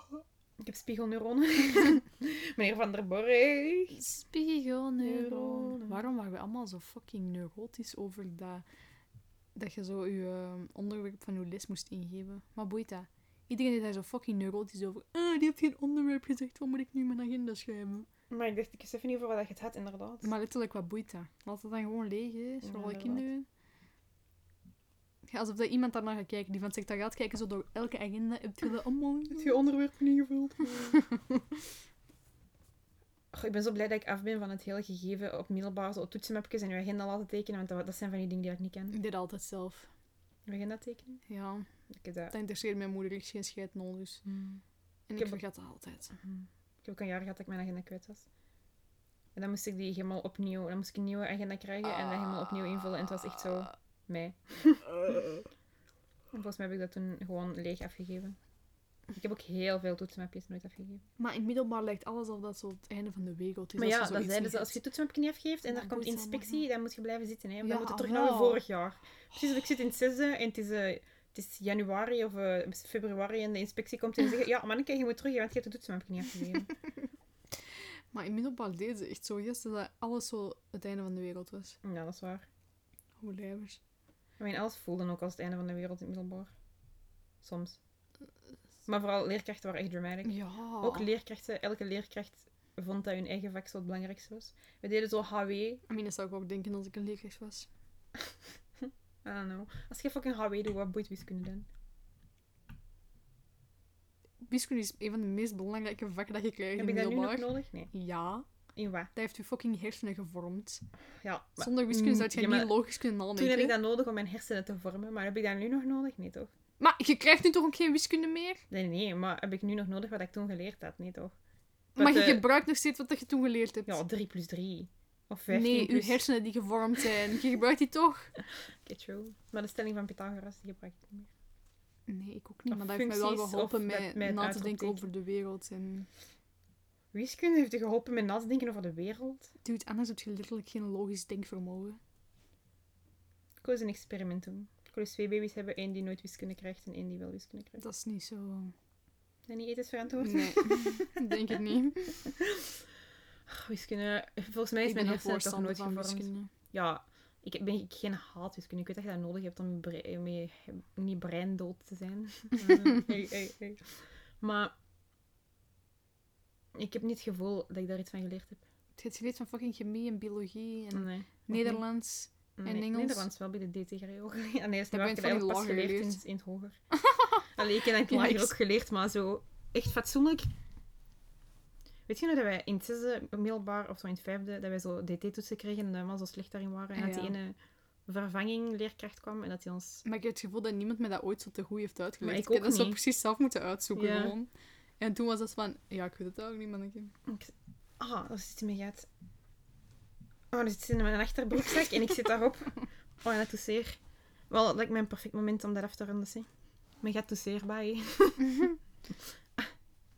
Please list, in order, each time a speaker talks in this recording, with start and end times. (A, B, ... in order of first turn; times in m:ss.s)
0:00.6-0:04.0 A
0:03.9-0:08.6 B
0:05.0-0:06.0 A
0:09.5-0:18.1 B
0:18.3-0:20.3 A
0:20.2-0:23.4 B
0:22.6-0:23.3 A
0:25.3-0:29.5 B
0:29.3-0:31.4 A
0:33.3-0:39.0 A
0:38.9-0:39.9 B
0:40.5-0:41.2 A
0:41.3-0:41.7 B
0:41.9-0:42.3 A
0:42.3-0:44.2 B
0:44.2-0:44.6 A
0:45.1-0:46.1 B
0:46.1-0:48.2 A
0:49.3-0:55.1 A
0:55.0-0:55.4 B
0:56.3-0:58.4 A
0:59.1-1:01.0 A
1:01.2-1:04.8 B
1:03.8-1:16.7 A
1:05.7-1:06.6 B
1:07.6-1:08.6 B
1:18.1-1:21.8 B
1:21.8-1:22.4 A
1:23.2-1:23.8 B
1:24.4-1:26.5 A
1:27.4-1:27.8 A
1:28.9-1:35.8 A
1:30.2-1:31.1 B
1:35.9-1:37.7 B
1:39.2-1:41.6 A
1:44.4-1:48.4 B
1:46.8-1:47.9 A
1:48.8-1:49.1 A
1:49.1-1:50.8 B
1:51.2-1:52.7 A
1:51.6-1:53.7 B
1:53.4-1:56.5 A
1:56.8-1:58.6 B
1:58.7-2:01.3 A
2:02.0-2:04.0 B
2:02.0-2:02.5 A
2:03.8-2:06.2 A
2:05.5-2:08.3 B
2:08.8-2:11.3 A
2:12.1-2:16.1 B
2:12.7-2:15.0 A
2:17.1-2:19.5 A
2:19.6-2:22.0 B
2:23.6-2:27.8 A
2:27.8-2:28.7 B
2:29.5-2:31.2 A
2:30.1-2:32.3 B
2:32.2-2:32.7 A
2:33.5-2:44.7 A
2:34.8-2:36.5 B
2:46.8-2:48.6 A
2:49.0-2:53.3 B
2:50.9-2:51.8 A
2:52.6-2:56.8 A
2:54.9-2:56.2 B
2:56.9-2:58.5 B
2:57.6-3:00.5 A
3:02.1-3:07.6 A
3:06.9-3:07.4 B
3:08.1-3:10.0 A
3:10.0-3:17.1 B
3:12.2-3:13.0 A
3:14.0-3:14.3 A
3:17.2-3:19.1 A
3:20.5-3:24.0 A
3:24.5-3:26.5 A
3:27.0-3:28.7 A